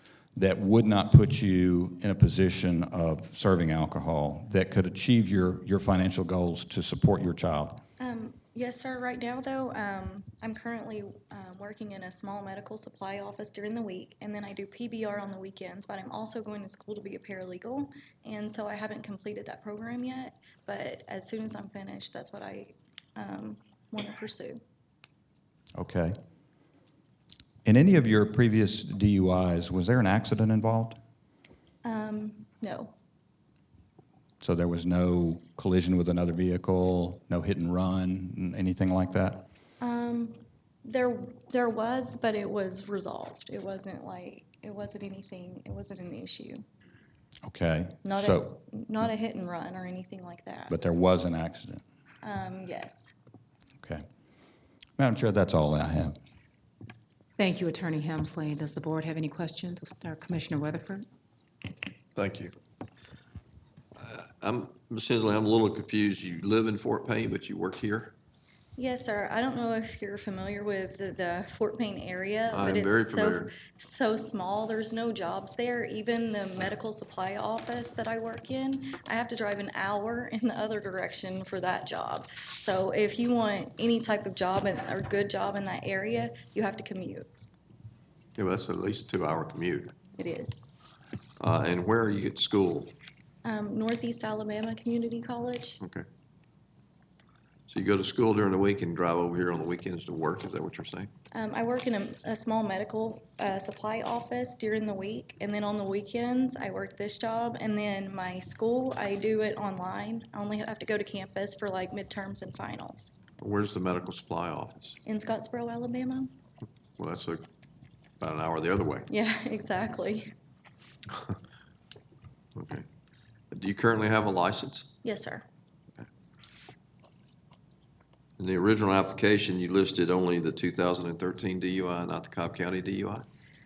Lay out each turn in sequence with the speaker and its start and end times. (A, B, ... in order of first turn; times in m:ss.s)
0:00.4-0:07.8 A
0:08.0-0:24.6 B
0:25.8-0:26.2 A
0:27.6-0:31.0 A
0:31.8-0:32.9 B
0:34.4-0:39.4 A
0:39.8-0:46.6 B
0:47.4-0:48.5 A
0:48.0-0:50.7 B
0:50.7-0:51.8 A
0:52.2-0:53.1 B
0:53.8-0:54.1 A
0:55.0-0:56.2 A
0:57.4-1:01.1 C
1:02.2-1:02.5 D
1:04.0-1:08.1 D
1:08.8-1:27.3 B
1:12.5-1:13.5 D
1:28.4-1:29.9 D
1:30.2-1:30.6 B
1:31.4-1:32.9 D
1:33.4-1:35.8 B
1:35.8-1:36.1 D
1:37.7-1:41.1 D
1:41.3-1:53.2 B
1:53.4-1:55.0 D
1:55.0-1:56.3 B
1:57.0-1:57.4 D
1:58.2-1:59.1 D
1:59.1-2:00.3 B
2:02.6-2:02.9 D
2:03.5-2:04.9 D
2:05.0-2:05.4 B
2:08.4-2:13.3 D